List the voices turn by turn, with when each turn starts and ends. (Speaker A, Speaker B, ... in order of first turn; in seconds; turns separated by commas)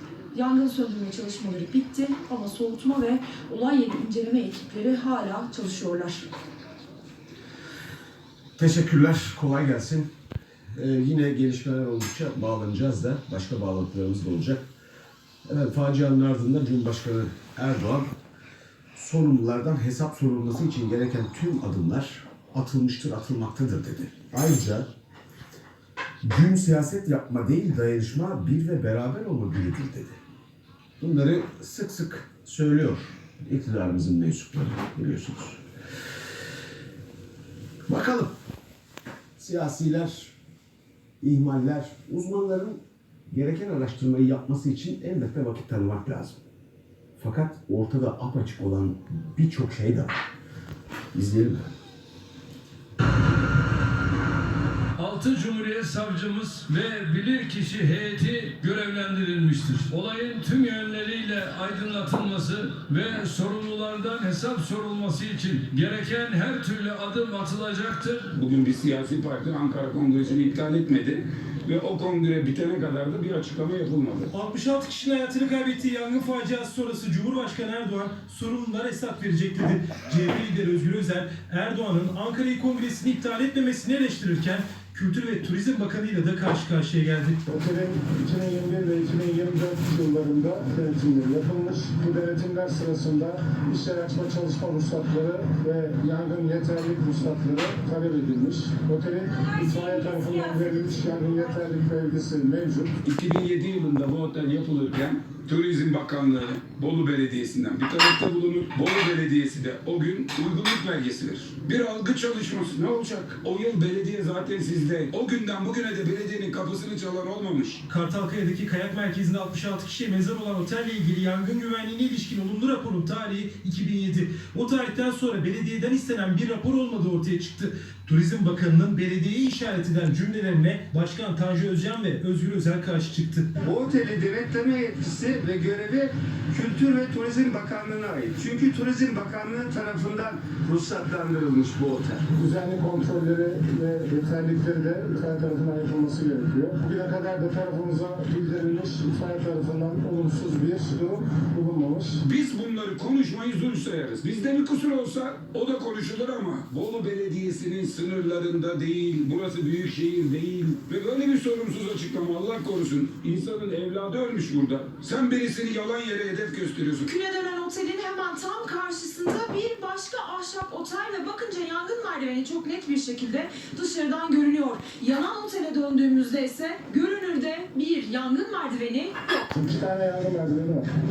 Speaker A: 0.3-6.3, Speaker B: 8.6-10.1, Speaker B: 10.8-14.7, Speaker B: 15.5-18.1, Speaker B: 19.0-24.9, Speaker B: 26.2-30.2, Speaker B: 31.0-35.6, Speaker B: 37.9-38.3, Speaker B: 39.4-40.4, Speaker B: 41.2-42.8, Speaker B: 43.3-46.4, Speaker B: 47.2-50.2, Speaker B: 51.1-51.7, Speaker C: 55.0-68.4, Speaker D: 68.3-74.3, Speaker E: 74.3-87.4, Speaker F: 87.5-102.9, Speaker D: 103.0-117.8, Speaker E: 117.9-133.5, Speaker G: 133.6-142.2, Speaker F: 142.4-152.2, Speaker D: 152.2-167.1, Speaker A: 167.0-179.5, Speaker F: 179.5-180.9